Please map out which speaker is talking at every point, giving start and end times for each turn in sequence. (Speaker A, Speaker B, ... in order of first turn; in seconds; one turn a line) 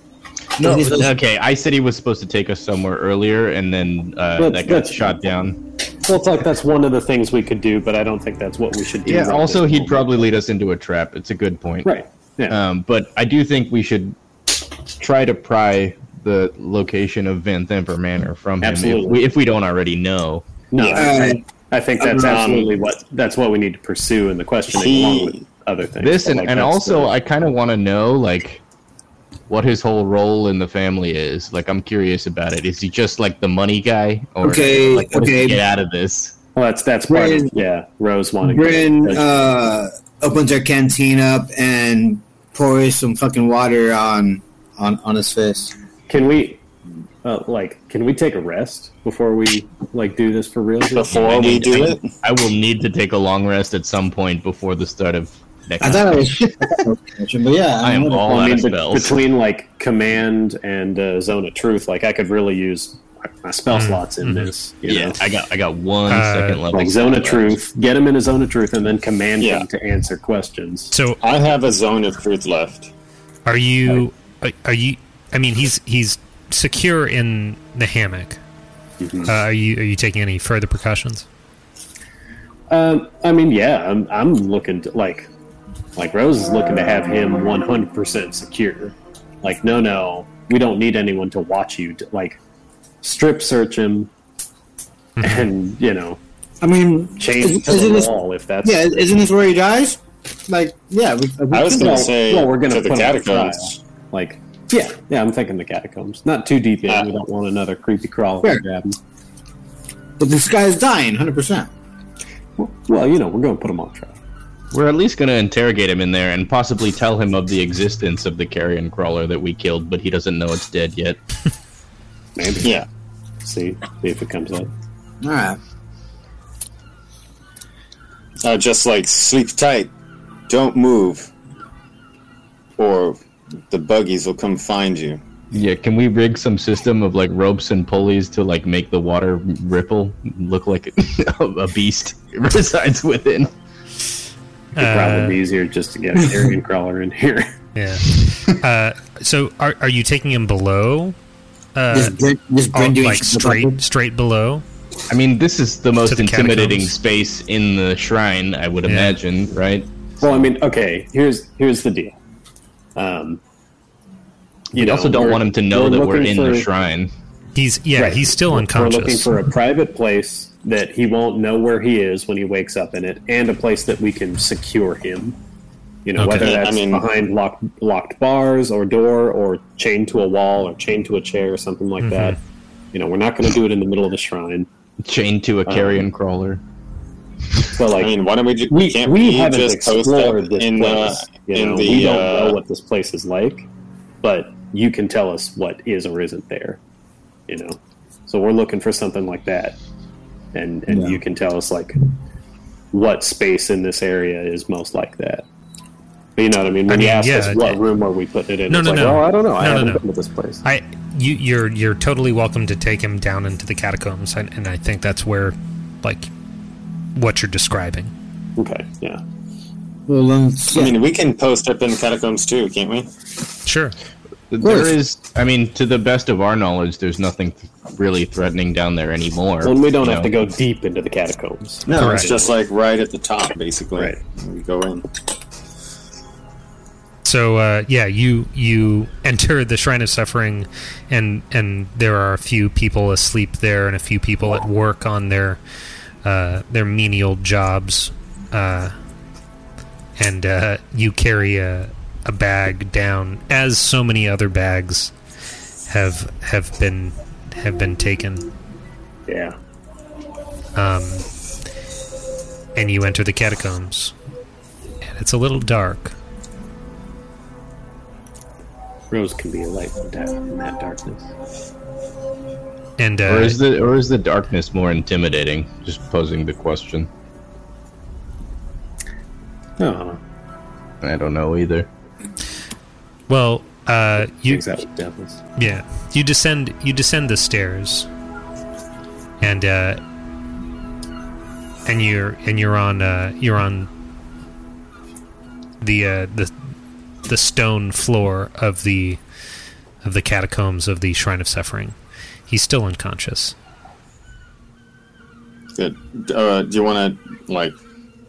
Speaker A: 0.6-5.6
Speaker B: 0.6-1.1
Speaker C: 4.4-5.1
Speaker C: 6.0-10.2
Speaker A: 9.0-12.0
Speaker C: 11.8-12.6
Speaker A: 12.5-20.4
Speaker C: 18.6-19.2
Speaker C: 20.7-27.1
Speaker D: 20.8-21.1
Speaker B: 20.9-21.4
Speaker B: 22.0-22.7
Speaker D: 24.7-25.4
Speaker A: 26.0-28.6
Speaker A: 29.5-36.3
Speaker B: 34.4-35.6
Speaker C: 36.5-39.2
Speaker B: 37.1-37.5
Speaker B: 38.4-45.7
Speaker C: 46.1-46.6
Speaker C: 47.2-51.9
Speaker D: 50.9-52.1
Speaker A: 51.1-56.5
Speaker B: 55.8-58.4
Speaker A: 57.8-59.2
Speaker C: 58.3-65.2
Speaker E: 63.7-64.5
Speaker A: 64.8-67.6
Speaker E: 66.1-66.6
Speaker C: 66.7-70.9
Speaker D: 69.4-69.6
Speaker E: 70.9-71.2
Speaker D: 71.2-72.9
Speaker E: 73.5-78.4
Speaker C: 79.0-79.3
Speaker E: 79.2-81.2
Speaker C: 82.7-85.3
Speaker C: 86.0-92.4
Speaker C: 93.0-94.1
Speaker E: 95.2-95.5
Speaker C: 95.2-96.2
Speaker B: 96.6-98.1
Speaker C: 97.2-99.1
Speaker B: 98.6-102.1
Speaker D: 101.5-103.7
Speaker C: 101.5-109.0
Speaker B: 110.2-111.7
Speaker C: 112.6-114.2
Speaker A: 114.7-121.2
Speaker C: 122.3-122.7
Speaker C: 123.4-124.7
Speaker B: 125.2-125.6
Speaker D: 128.4-129.9
Speaker D: 130.5-131.3
Speaker D: 132.8-133.2
Speaker D: 133.7-135.2
Speaker A: 135.5-143.5
Speaker E: 144.8-145.4
Speaker C: 144.8-147.5
Speaker E: 147.7-151.2
Speaker E: 151.7-152.2
Speaker B: 151.9-153.8
Speaker E: 152.7-154.6
Speaker A: 155.1-159.9
Speaker E: 156.1-156.9
Speaker E: 158.8-159.2
Speaker C: 160.2-162.2
Speaker C: 162.9-163.4
Speaker C: 164.7-166.7
Speaker A: 164.8-167.1
Speaker E: 167.5-169.3
Speaker C: 167.9-175.3
Speaker C: 176.0-182.4
Speaker E: 176.2-176.5
Speaker D: 176.4-177.0
Speaker E: 182.0-182.4
Speaker C: 182.9-184.7
Speaker A: 185.0-186.6
Speaker C: 185.7-186.0
Speaker C: 187.7-188.1
Speaker D: 187.9-192.6
Speaker C: 188.7-193.7
Speaker C: 194.2-196.8
Speaker C: 197.5-199.8
Speaker C: 200.5-202.0
Speaker B: 200.9-201.2
Speaker C: 202.9-205.4
Speaker C: 206.4-210.6
Speaker E: 206.9-207.8
Speaker E: 208.7-210.0
Speaker E: 210.6-216.3
Speaker E: 217.1-218.1
Speaker C: 218.6-219.2
Speaker B: 220.1-221.0
Speaker D: 220.7-223.1
Speaker E: 223.6-223.9
Speaker A: 224.5-230.3
Speaker B: 224.6-224.9
Speaker C: 229.6-232.5
Speaker D: 231.9-235.1
Speaker E: 231.9-232.3
Speaker E: 237.2-245.6
Speaker E: 246.2-248.9
Speaker E: 250.2-255.1
Speaker E: 255.9-258.5
Speaker C: 259.3-259.5
Speaker E: 260.8-261.3
Speaker E: 262.8-264.1
Speaker E: 265.0-266.1
Speaker C: 269.1-271.3
Speaker E: 273.0-273.6
Speaker A: 273.3-277.1
Speaker C: 279.8-280.2
Speaker A: 281.0-281.9
Speaker E: 283.3-284.6
Speaker C: 284.5-285.4
Speaker E: 285.6-288.1
Speaker E: 289.4-290.0
Speaker E: 291.9-293.9
Speaker E: 295.8-296.5
Speaker E: 297.2-299.2
Speaker E: 300.0-301.9
Speaker E: 302.5-303.5
Speaker D: 305.8-307.7